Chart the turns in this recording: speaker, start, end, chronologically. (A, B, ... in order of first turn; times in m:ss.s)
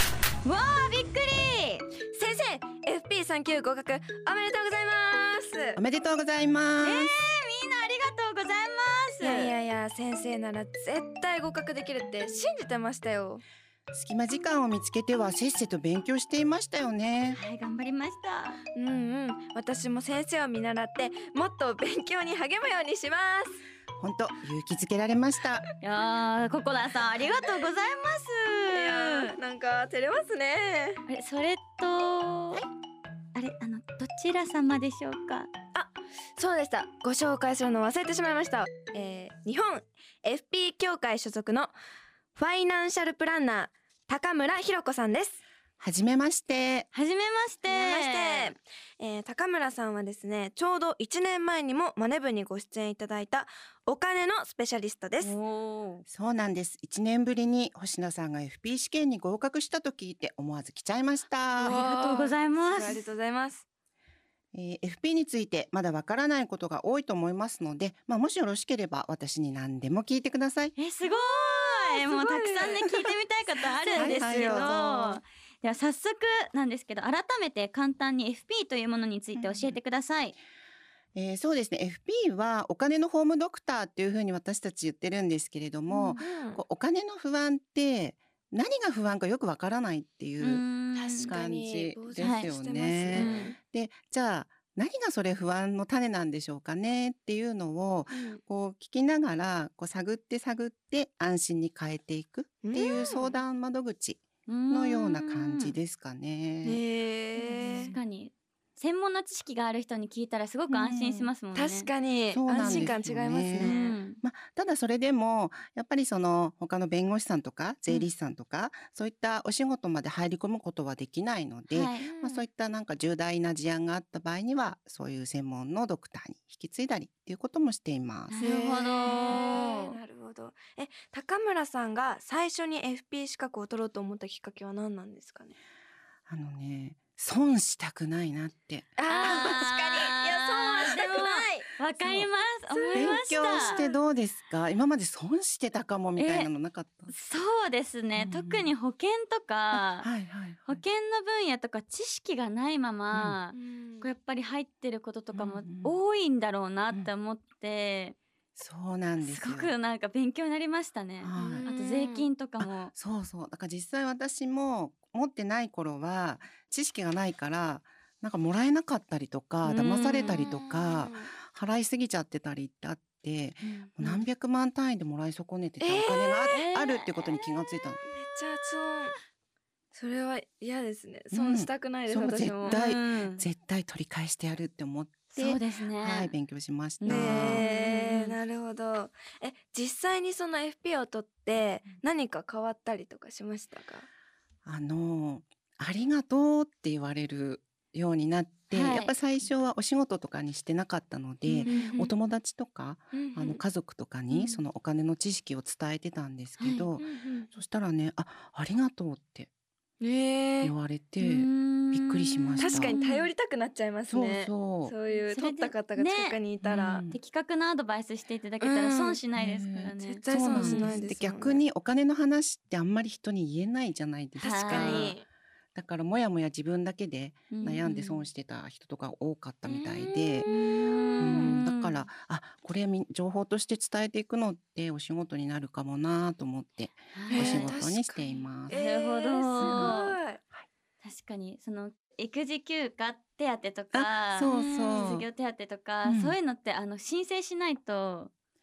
0:00.4-0:01.9 A
0:02.1-0:05.8 B
0:05.8-0:07.1 C
0:06.8-0:09.5 A
0:09.2-0:13.4 B
0:13.9-0:17.4 C
0:17.3-0:18.6 A
0:18.8-0:23.6 B
0:24.0-0:25.7 C
0:25.8-0:29.3 A
0:28.7-0:31.0 B
0:31.1-0:32.6 A
0:33.3-0:35.5 A
0:35.7-0:41.7 B
0:42.3-0:45.4 B
0:45.8-0:46.9 C
0:46.9-0:48.5 A
0:47.7-0:55.4 B
0:55.2-0:56.0 A
0:56.1-1:01.8 C
1:01.6-1:03.0 A
1:01.6-1:03.6 B
1:04.5-1:10.7 C
1:10.8-1:20.3 A
1:11.1-1:13.0 B
1:13.8-1:14.8 B
1:13.9-1:15.2 C
1:19.4-1:19.7 C
1:21.1-1:30.6 C
1:25.9-1:26.3 A
1:26.2-1:26.6 B
1:30.4-1:31.3 A
1:30.9-1:33.6 B
1:31.2-1:46.8 C
1:32.2-1:32.5 A
1:33.1-1:33.5 A
1:38.1-1:38.4 B
1:42.6-1:43.3 B
1:42.8-1:43.3 A
1:44.5-1:45.7 A
1:46.6-1:47.9 B
1:47.5-1:48.0 C
1:47.8-1:51.9 A
1:50.7-1:51.3 C
1:51.5-1:54.0 B
1:52.3-2:08.7 C
1:52.6-1:52.9 A
1:53.6-1:54.2 A
2:01.7-2:02.1 A
2:02.1-2:02.4 B
2:08.3-2:10.0 A
2:08.4-2:15.6 B
2:16.3-2:19.4 C
2:19.0-2:21.8 B
2:19.1-2:23.8 A
2:22.0-2:22.3 C
2:22.7-2:24.0 B
2:22.9-2:27.1 C
2:26.2-2:26.5 A
2:27.1-2:30.1 A
2:28.2-2:28.7 C
2:29.7-2:30.8 C
2:30.6-2:38.2 A
2:33.5-2:34.1 B
2:35.3-2:35.9 C
2:38.6-2:39.7 C
2:39.2-2:42.9 A
2:41.2-2:41.6 C
2:41.4-2:42.3 B
2:42.6-2:58.0 C
2:49.6-2:50.4 A
2:50.2-2:51.3 B
2:53.6-2:54.2 A
2:55.8-2:57.0 B
2:58.1-2:59.1 B
2:59.9-3:02.8 B
3:01.3-3:07.6 C
3:02.6-3:03.4 A
3:05.4-3:06.3 A
3:07.0-3:08.4 A
3:07.0-3:14.1 B
3:14.6-3:29.5 C
3:18.7-3:19.1 A
3:21.5-3:21.9 A
3:21.6-3:22.1 B
3:23.1-3:23.6 B
3:24.3-3:24.6 A
3:26.6-3:26.9 A
3:27.0-3:27.5 B
3:30.0-3:30.7 B
3:30.6-3:33.0 C
3:31.2-3:33.3 A
3:32.6-3:37.0 B
3:34.1-3:34.9 C
3:35.1-3:36.4 A
3:36.6-3:37.2 C
3:37.1-3:41.0 A
3:38.6-3:39.2 B
3:39.4-3:45.2 C
3:40.0-3:41.6 B
3:44.4-3:45.2 B
3:44.4-3:45.1 A
3:45.7-3:50.5 C
3:47.5-3:48.2 A
3:49.7-3:52.0 A
3:50.4-3:51.5 B
3:51.2-3:58.8 C
3:57.1-3:57.7 A
3:57.3-4:00.4 B
3:58.7-4:00.2 A
3:59.6-4:00.0 C
4:01.0-4:08.3 A
4:03.9-4:05.2 C
4:04.4-4:05.1 B
4:06.0-4:06.4 C